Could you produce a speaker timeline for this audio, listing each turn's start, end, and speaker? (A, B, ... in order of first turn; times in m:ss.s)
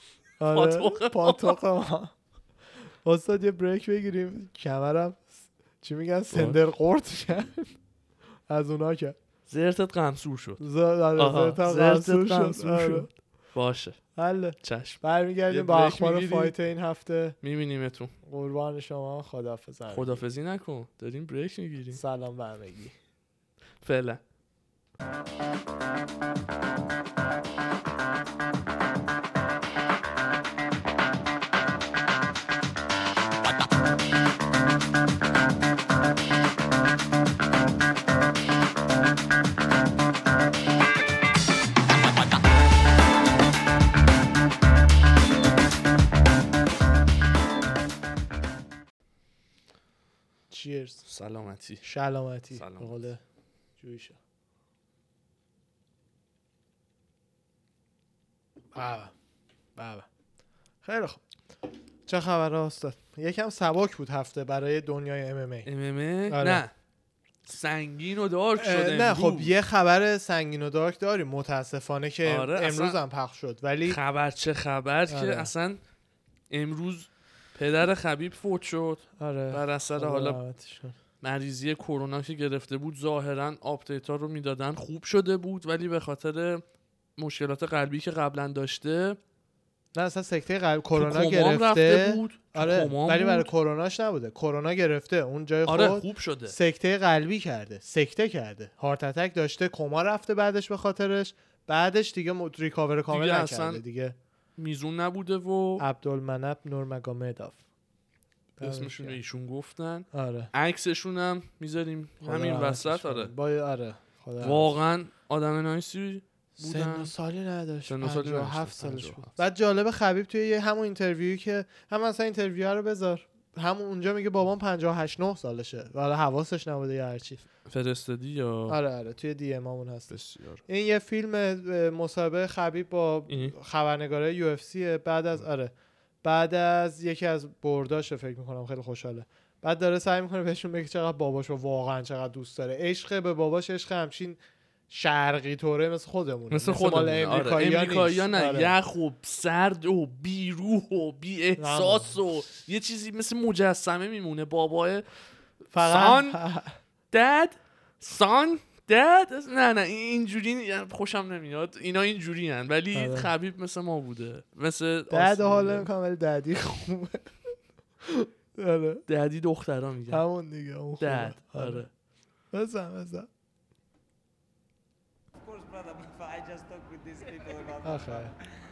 0:00.4-0:02.1 A
0:00.5-0:01.6 B
0:03.0-0:07.7 A
0:06.3-0:06.6 B
0:08.5-0:09.2 A
0:09.5-0:10.6 B
0:10.6-0:13.1 A
0:11.2-0:14.0 B
0:14.2-0:17.4 A
0:14.6-0:16.5 B
0:17.4-0:18.1 B
0:18.2-0:20.2 A
0:19.9-0:22.0 B
0:21.9-0:23.0 A
0:23.8-0:24.2 B
0:50.5-0:51.0 A
0:51.0-0:51.8 B
0:51.8-0:53.2 A
0:52.5-0:53.0 B
0:53.8-0:54.2 A
0:58.7-0:59.1 A
0:59.8-1:00.0 A
1:00.8-1:01.2 A
1:02.1-1:05.7 A
1:05.6-1:06.7 B
1:06.3-1:06.6 A
1:07.4-1:09.5 B
1:08.6-1:14.0 A
1:12.2-1:13.0 B
1:13.8-1:15.8 B
1:15.1-1:15.5 A
1:16.5-1:20.4 B
1:19.2-1:21.0 A
1:21.2-1:26.6 B
1:27.2-1:29.2 B
1:29.9-1:44.2 A
1:30.9-1:33.5 B
1:35.6-1:36.6 B
1:43.1-1:43.8 B
1:44.6-1:45.8 B
1:45.8-1:47.6 A
1:48.6-1:49.2 A
1:48.6-1:53.3 B
1:50.1-1:50.5 A
1:52.2-1:54.8 A
1:54.4-1:57.1 B
1:56.6-2:07.4 A
1:57.9-1:59.4 B
2:07.6-2:08.8 B
2:08.7-2:15.7 A
2:10.1-2:10.6 B
2:13.3-2:13.5 B
2:16.2-2:24.4 A
2:24.9-2:28.7 A
2:26.5-2:35.0 B
2:31.6-2:32.2 A
2:35.7-2:36.7 A
2:35.7-2:36.4 B
2:37.1-2:45.9 B
2:42.9-2:43.3 A
2:45.1-2:47.4 A
2:48.0-2:49.0 A
2:49.1-2:50.2 B
2:50.1-2:51.8 A
2:51.0-2:51.9 B
2:52.5-2:53.3 A
2:55.4-2:58.4 C
2:57.8-2:58.3 A